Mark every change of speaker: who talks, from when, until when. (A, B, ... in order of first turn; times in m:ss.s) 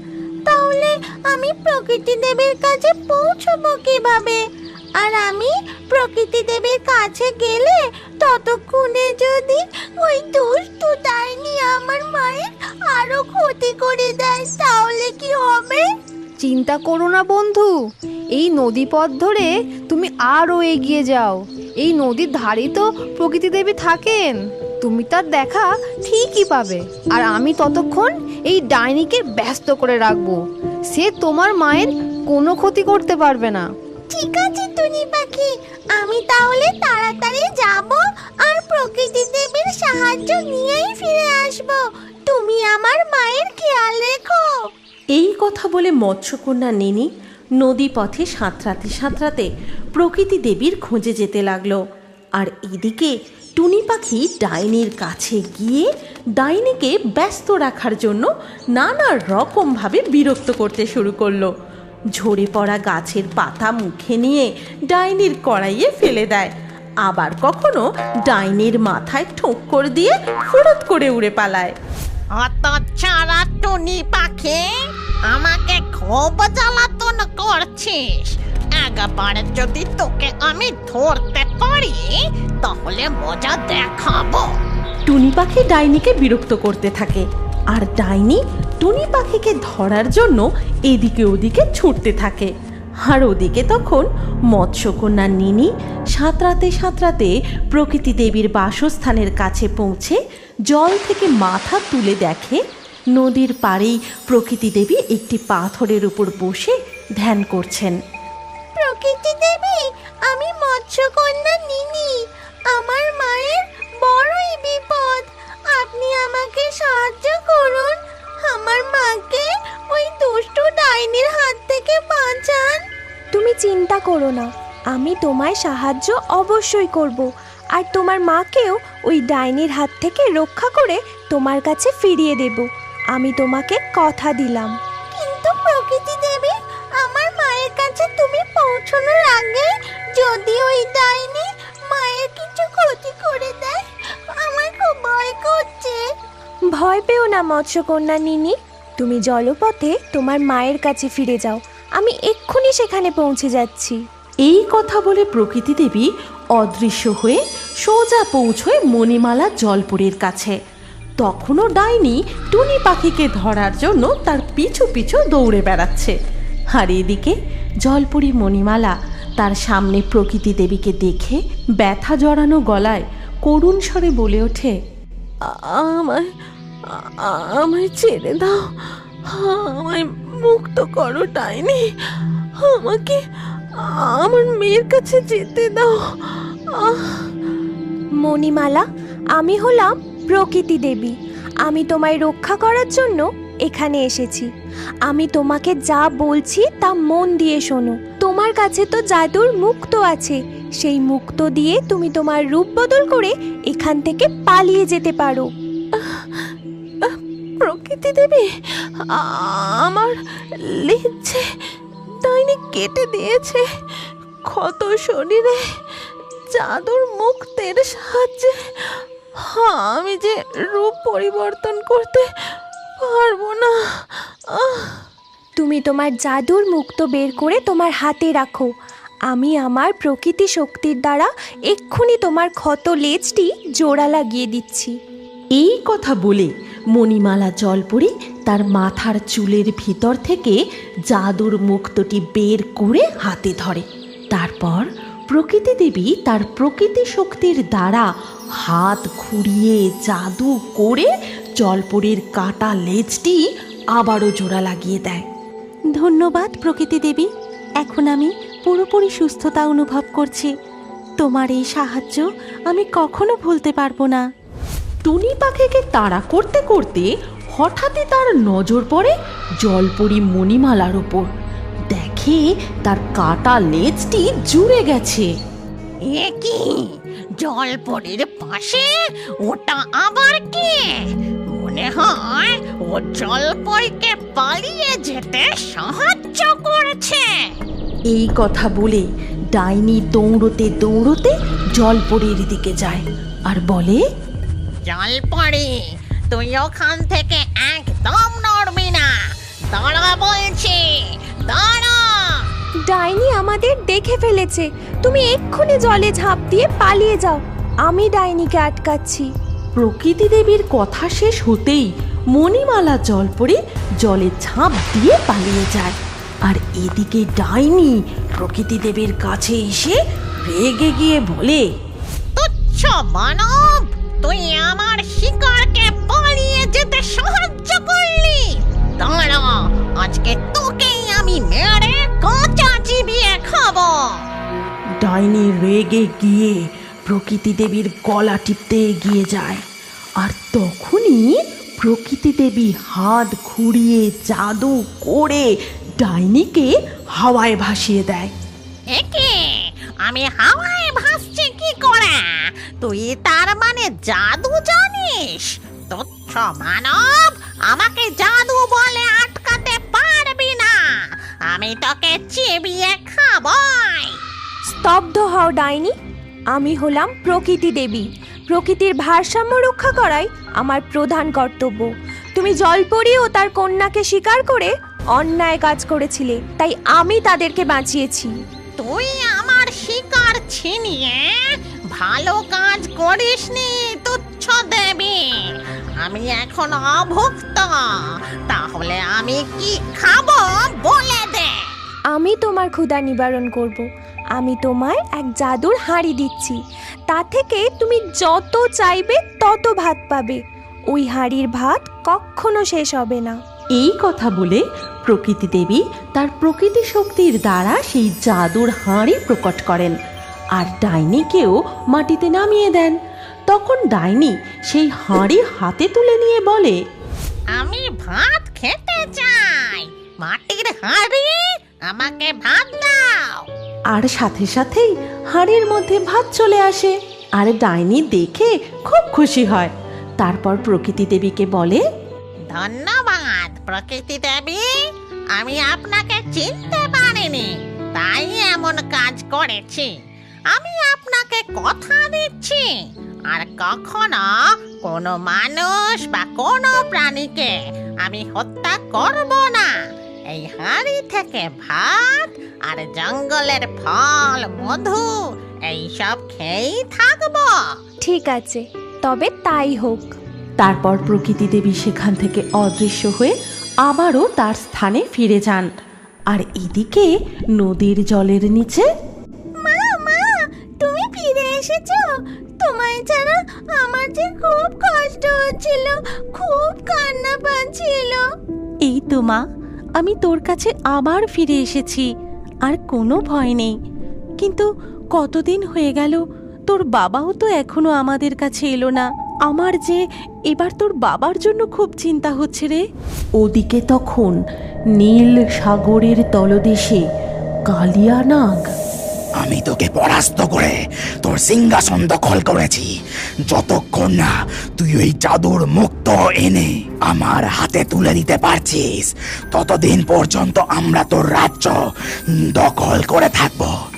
0:00.5-0:04.4 A
0:05.0-0:15.8 A
0:16.4-0:17.8 B
0:18.3-0:33.7 B
0:34.1-0:44.5 A
0:45.1-0:47.1 C
0:47.6-0:51.8 C
0:52.4-1:01.5 C
1:02.2-1:06.5 C
1:07.0-1:11.8 C
1:12.4-1:14.7 D
1:15.3-1:22.1 D
1:22.6-1:24.5 D
1:25.1-1:32.5 C
1:33.1-1:40.2 C
1:40.7-1:42.6 C
1:43.2-1:48.0 C
1:48.8-1:52.1 A
1:52.7-1:57.9 A
1:58.4-2:02.8 A
2:03.3-2:14.7 E
2:15.2-2:23.8 A
2:24.4-2:26.0 A
2:26.8-2:34.0 E
2:34.5-2:40.5 C
2:41.2-2:46.1 C
2:46.7-2:54.8 C
2:55.8-2:56.2 C
2:57.3-2:58.5 C
2:59.4-3:00.0 C
3:00.5-3:01.8 C
3:02.7-3:03.1 C
3:04.2-3:05.9 C
3:08.2-3:08.8 E
3:09.4-3:11.1 E
3:11.6-3:14.5 E
3:15.1-3:25.5 E
3:27.6-3:28.4 C
3:29.2-3:30.1 C
3:30.9-3:31.4 C
3:32.3-3:33.6 C
3:34.5-3:35.6 C
3:36.6-3:38.5 C
3:39.6-3:42.2 C
3:43.1-3:43.7 C
3:45.6-3:48.7 E
3:49.3-3:55.0 E
3:55.6-4:00.6 C
4:01.1-4:08.1 C
4:08.6-4:13.4 C
4:13.9-4:15.3 C
4:15.9-4:17.3 C
4:17.8-4:20.5 C
4:21.2-4:24.2 C
4:25.1-4:31.3 C
4:31.9-4:35.3 C
4:36.1-4:38.9 D
4:39.5-4:40.8 D
4:41.6-4:47.2 D
4:48.1-4:54.0 C
4:54.9-4:55.7 D
4:56.3-4:59.2 D
4:59.7-5:00.8 D
5:01.5-5:02.4 D
5:02.9-5:09.3 E
5:09.8-5:21.6 C
5:22.4-5:34.2 D
5:35.0-5:39.6 C
5:40.2-5:48.3 C
5:48.9-6:01.0 D
6:01.5-6:04.2 D
6:04.7-6:05.9 E
6:06.5-6:18.3 E
6:18.8-6:25.5 D
6:26.0-6:27.7 D
6:28.5-6:31.5 D
6:32.1-6:33.8 E
6:34.4-6:36.6 E
6:37.1-6:40.4 E
6:40.9-6:43.4 E
6:43.8-6:50.0 C
6:50.6-6:53.0 C
6:53.5-6:56.8 C
6:57.6-7:03.4 D
7:03.9-7:11.8 C
7:12.5-7:14.6 D
7:15.4-7:19.9 D
7:20.5-7:22.7 D
7:23.3-7:29.7 D
7:30.3-7:35.1 D
7:35.7-7:37.7 D
7:38.0-7:40.1 E
7:40.6-7:43.3 C
7:43.8-7:45.7 C
7:46.3-7:48.9 C
7:49.6-7:50.3 A
7:50.8-7:52.1 A
7:52.6-7:58.2 A
7:58.8-7:59.4 C
8:00.0-8:02.1 C
8:02.6-8:03.7 C
8:04.4-8:12.8 C
8:13.4-8:14.4 C
8:15.0-8:17.0 C
8:17.7-8:18.8 C
8:19.4-8:22.9 F
8:23.5-8:31.8 F
8:32.4-8:33.8 F